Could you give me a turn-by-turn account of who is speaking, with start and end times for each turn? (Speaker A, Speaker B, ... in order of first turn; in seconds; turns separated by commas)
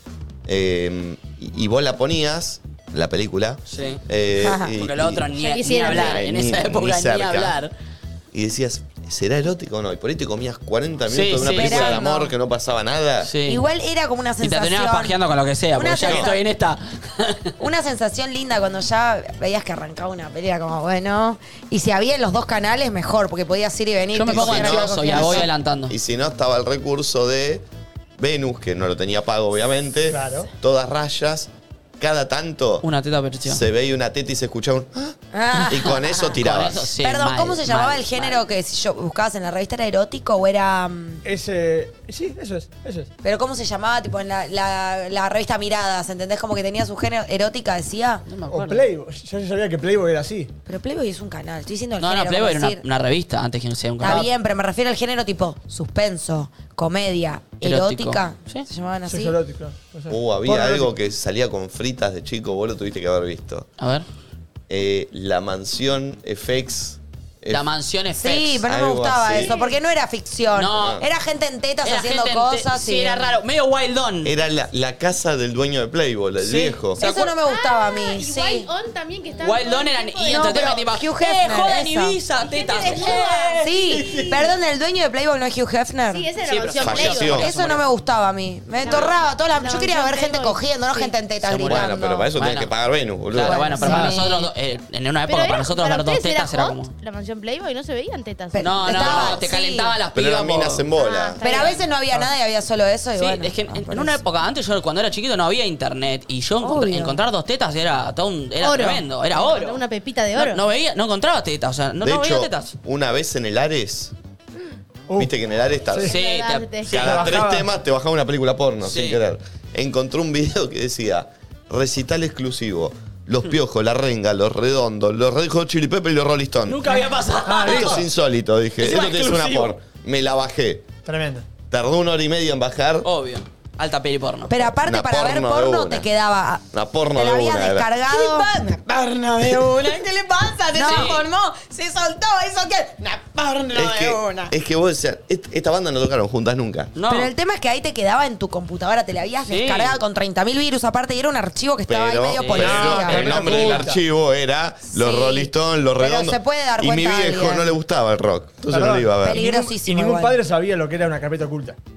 Speaker A: 0.5-7.5, Speaker B: 3.7-4.0, Speaker C: 4.4-4.7, Speaker B: 4.8-7.7, Speaker D: 5.4-6.2, Speaker A: 8.3-13.3, Speaker B: 11.1-12.0, Speaker C: 11.4-12.3, Speaker B: 13.2-13.6, Speaker C: 13.5-15.2, Speaker B: 14.4-17.5, Speaker C: 15.7-16.4, Speaker A: 16.0-16.3, Speaker C: 17.6-25.5, Speaker B: 24.1-25.9, Speaker A: 24.3-27.6, Speaker A: 28.2-32.8, Speaker E: 30.1-30.5, Speaker B: 32.8-33.6, Speaker A: 33.4-36.9, Speaker C: 35.3-36.4, Speaker B: 36.4-38.4, Speaker C: 37.0-41.2, Speaker E: 41.2-43.1, Speaker C: 43.2-48.2, Speaker B: 48.2-48.9, Speaker E: 48.5-50.5, Speaker C: 50.6-52.8, Speaker B: 52.0-54.3, Speaker C: 54.0-59.4, Speaker B: 57.6-58.6, Speaker E: 59.1-60.9, Speaker A: 60.1-63.7, Speaker B: 63.8-64.0, Speaker A: 64.7-67.7, Speaker B: 67.5-68.6, Speaker C: 68.2-73.3, Speaker A: 68.7-69.5, Speaker B: 70.5-71.0, Speaker A: 70.7-71.0, Speaker B: 71.8-74.3, Speaker A: 74.2-77.0, Speaker B: 76.4-77.3, Speaker C: 77.0-78.7, Speaker D: 77.0-80.8, Speaker B: 79.4-84.3, Speaker C: 80.3-82.2, Speaker D: 82.4-83.6, Speaker C: 82.8-86.3, Speaker D: 86.1-87.4, Speaker B: 86.4-87.8, Speaker A: 86.8-87.5, Speaker C: 87.0-92.3, Speaker D: 88.8-91.1, Speaker B: 88.9-89.1, Speaker B: 91.4-92.7, Speaker A: 91.6-93.7, Speaker B: 93.3-96.9, Speaker C: 93.4-94.2, Speaker F: 93.8-94.5, Speaker D: 95.3-99.4, Speaker C: 98.5-99.9, Speaker B: 98.6-100.8, Speaker A: 100.1-101.4, Speaker D: 101.0-101.9, Speaker C: 101.4-104.2, Speaker B: 103.2-109.8, Speaker C: 106.6-107.2, Speaker D: 108.6-110.6, Speaker B: 110.3-112.7, Speaker A: 112.0-114.1, Speaker A: 115.2-116.1, Speaker D: 116.0-117.3, Speaker B: 116.1-117.3, Speaker A: 116.9-126.9, Speaker E: 117.0-117.7, Speaker B: 118.8-119.2, Speaker B: 126.7-128.0, Speaker E: 127.5-128.0, Speaker A: 127.6-130.9, Speaker B: 128.8-129.7, Speaker E: 131.1-131.4, Speaker A: 131.7-133.1, Speaker B: 133.0-134.5, Speaker C: 134.5-138.5, Speaker A: 134.8-136.1, Speaker A: 136.7-137.9, Speaker F: 138.1-144.5, Speaker C: 140.7-141.2, Speaker B: 140.8-141.2, Speaker A: 143.7-146.9, Speaker B: 146.9-147.3, Speaker C: 147.1-153.5, Speaker B: 149.4-150.0, Speaker A: 151.9-159.4, Speaker B: 152.3-153.9, Speaker E: 152.7-154.0, Speaker C: 154.9-157.7, Speaker E: 158.7-161.8, Speaker C: 159.2-160.4